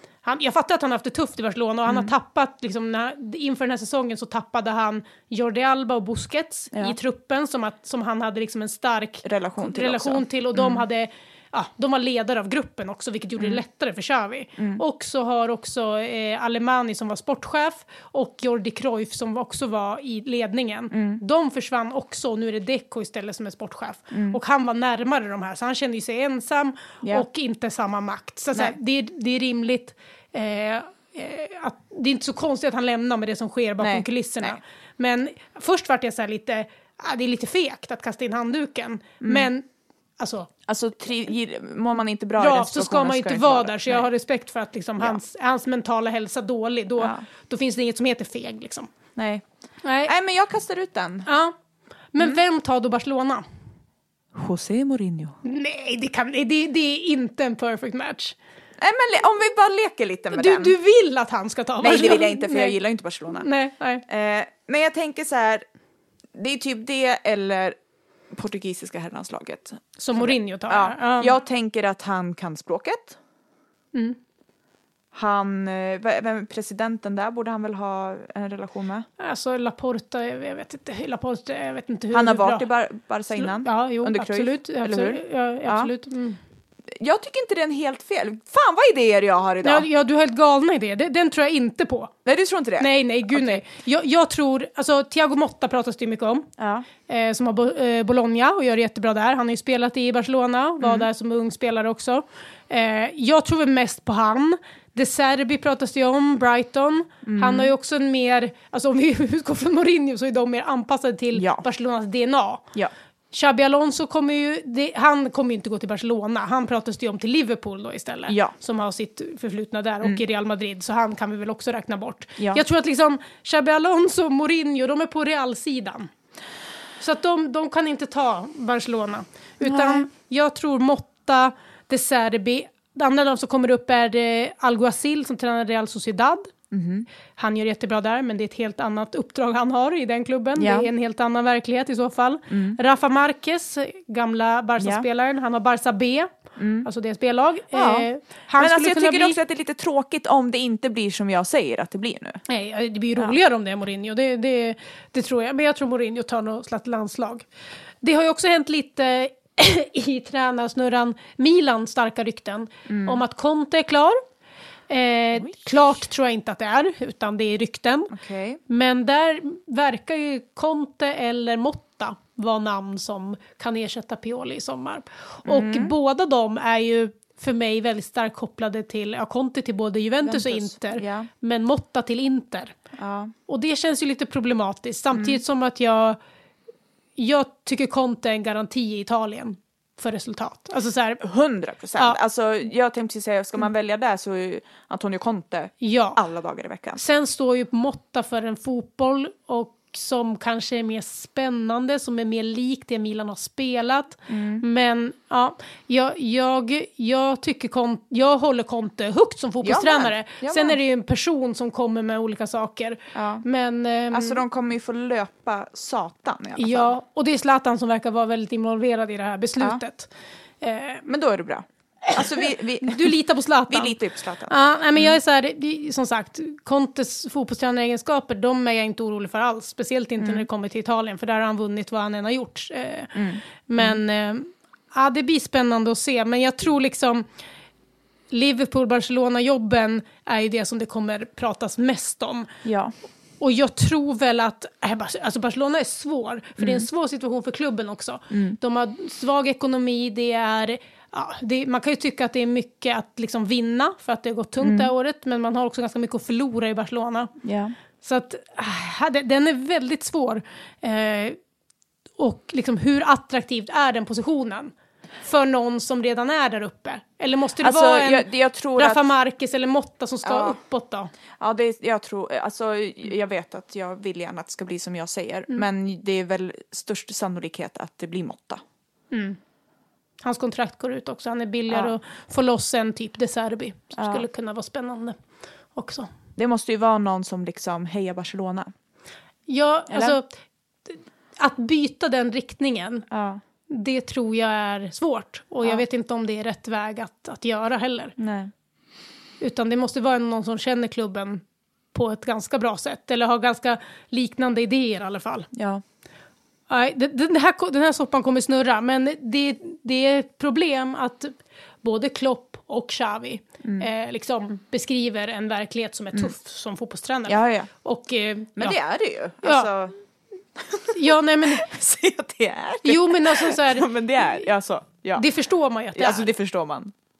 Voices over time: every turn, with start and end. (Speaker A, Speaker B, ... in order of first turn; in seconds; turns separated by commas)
Speaker A: 0.2-39.7, Speaker B: 1.9-2.1, Speaker B: 9.2-10.8, Speaker B: 14.6-14.8, Speaker B: 20.9-21.2, Speaker B: 24.1-24.4, Speaker B: 33.8-34.6, Speaker B: 39.2-39.5, Speaker A: 40.2-40.5, Speaker B: 40.7-44.1, Speaker A: 42.4-48.9, Speaker B: 47.0-47.3, Speaker B: 49.2-49.5, Speaker A: 49.8-50.1, Speaker B: 50.0-51.3, Speaker A: 51.3-51.5, Speaker A: 52.1-53.5, Speaker B: 54.4-55.4, Speaker A: 55.4-58.4, Speaker B: 58.8-60.8, Speaker A: 60.3-62.8, Speaker B: 61.8-63.5, Speaker A: 63.4-64.0, Speaker B: 64.1-65.7, Speaker B: 66.4-67.8, Speaker B: 68.3-73.2, Speaker A: 70.0-71.3, Speaker B: 75.1-79.1, Speaker A: 79.2-82.7, Speaker B: 82.1-85.9, Speaker A: 83.3-86.4, Speaker B: 87.0-89.9, Speaker A: 89.6-92.1, Speaker B: 92.2-93.6, Speaker A: 92.8-96.5, Speaker B: 96.6-96.9, Speaker A: 97.1-112.7, Speaker B: 100.8-101.1, Speaker B: 107.2-107.7, Speaker B: 111.3-111.7, Speaker A: 113.3-126.1, Speaker B: 118.3-118.5, Speaker B: 122.4-122.6, Speaker A: 127.0-136.5, Speaker B: 129.6-130.1, Speaker B: 136.7-137.1, Speaker A: 137.4-146.3, Speaker B: 140.6-140.9, Speaker B: 142.5-142.8, Speaker B: 144.8-145.1, Speaker B: 146.6-146.9, Speaker A: 146.8-149.4, Speaker B: 147.7-148.1, Speaker B: 148.6-152.4, Speaker A: 152.5-157.5, Speaker A: 158.0-164.2, Speaker B: 162.9-163.2, Speaker A: 164.9-168.1, Speaker B: 165.4-165.7, Speaker B: 168.1-168.6, Speaker A: 168.7-182.8, Speaker B: 175.4-175.9, Speaker B: 180.2-181.3, Speaker B: 183.0-183.3, Speaker A: 183.5-186.2, Speaker B: 185.1-185.4, Speaker A: 187.2-191.2, Speaker B: 191.2-197.0, Speaker A: 195.8-196.2, Speaker A: 197.0-214.4, Speaker B: 204.3-204.7, Speaker B: 209.6-210.8, Speaker B: 213.1-213.4, Speaker B: 214.1-217.0, Speaker A: 216.6-221.1, Speaker B: 221.1-223.2, Speaker A: 222.1-224.0, Speaker B: 223.7-225.2, Speaker A: 224.5-237.3, Speaker B: 230.2-230.5, Speaker B: 233.2-234.0, Speaker A: 238.3-242.5, Speaker B: 242.6-242.9, Speaker A: 243.4-257.3, Speaker B: 246.6-246.9, Speaker B: 248.3-248.6, Speaker B: 254.6-254.9, Speaker B: 257.4-257.8, Speaker A: 258.0-261.4, Speaker A: 262.2-271.1, Speaker B: 267.6-269.0, Speaker B: 270.2-270.6, Speaker B: 271.4-278.6, Speaker A: 279.1-279.4, Speaker A: 280.2-285.2, Speaker B: 283.9-284.2, Speaker A: 285.8-286.1, Speaker B: 286.4-288.7, Speaker A: 289.5-290.3, Speaker B: 289.9-290.2, Speaker A: 290.9-293.1, Speaker B: 293.1-293.4, Speaker A: 293.7-298.1, Speaker B: 298.2-298.5, Speaker A: 299.4-305.5, Speaker B: 305.5-305.8, Speaker A: 306.7-318.8, Speaker B: 317.3-317.7, Speaker B: 318.6-319.9, Speaker A: 319.4-319.7, Speaker B: 320.6-325.3, Speaker A: 320.9-321.7, Speaker A: 322.9-324.5, Speaker A: 325.2-326.3, Speaker B: 325.9-326.9